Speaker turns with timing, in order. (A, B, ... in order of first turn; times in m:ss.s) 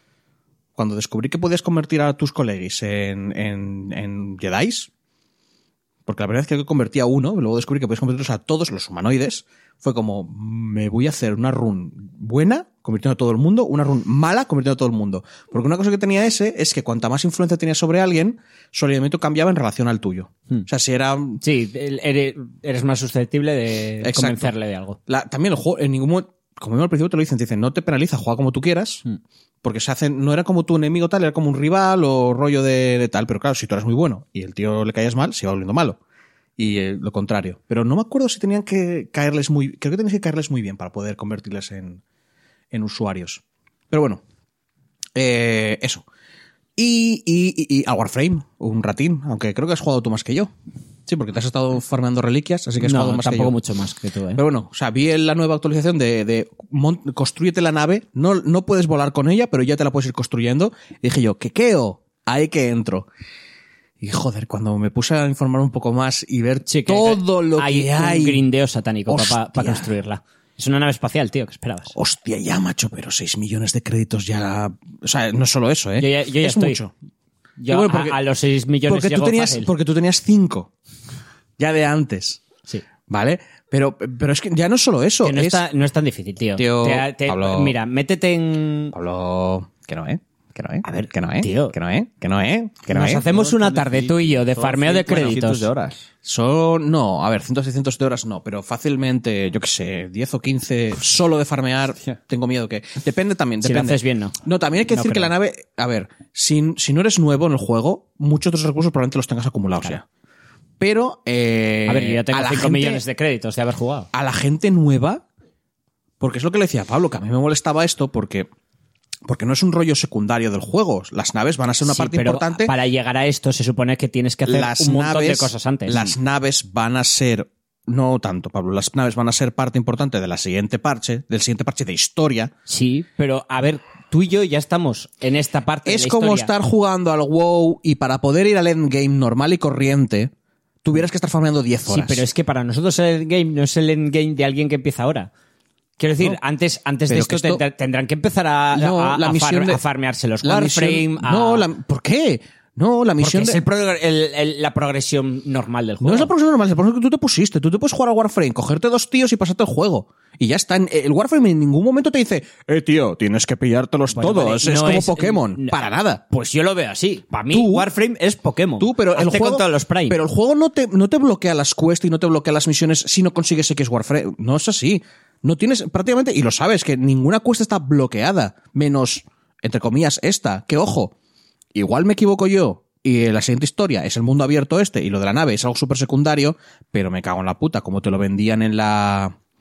0:00.8-0:04.9 A
0:06.1-0:21.4 A
0:21.4-0:25.0 B
0:24.0-0:24.5 A
0:25.1-0:29.0 A
0:29.6-0:36.0 A
0:36.6-0:42.0 A
0:42.7-0:44.2 A
0:45.2-0:46.0 A
0:46.8-0:50.5 A
0:51.1-0:53.6 A
0:52.8-0:54.4 B
0:54.4-1:03.1 A
1:04.0-1:08.4 A
1:06.7-1:11.9 B
1:09.1-1:09.9 A
1:11.9-1:16.9 A
1:16.0-1:16.8 B
1:17.6-1:19.7 B
1:17.7-1:18.2 A
1:18.9-1:20.7 A
1:21.6-1:22.4 A
1:23.1-1:25.6 A
1:25.2-1:29.0 B
1:26.6-1:27.8 A
1:28.9-1:33.2 A
1:30.8-1:31.8 B
1:32.9-1:35.7 B
1:33.2-1:36.0 C
1:36.2-1:50.0 A
1:43.6-1:44.4 B
1:44.9-1:45.3 B
1:50.8-1:53.0 A
1:51.9-1:54.1 B
1:54.1-1:55.2 A
1:56.2-1:58.5 A
1:59.3-2:02.7 A
2:01.8-2:06.1 B
2:04.5-2:12.5 A
2:12.7-2:16.5 B
2:15.9-2:20.3 A
2:20.8-2:22.2 A
2:21.9-2:25.3 B
2:26.0-2:31.7 B
2:27.1-2:27.6 A
2:28.7-2:29.8 A
2:30.4-2:33.6 A
2:33.2-2:36.3 B
2:36.0-2:46.2 A
2:44.1-2:50.2 B
2:47.5-2:47.9 A
2:48.8-3:01.1 A
3:01.7-3:09.4 A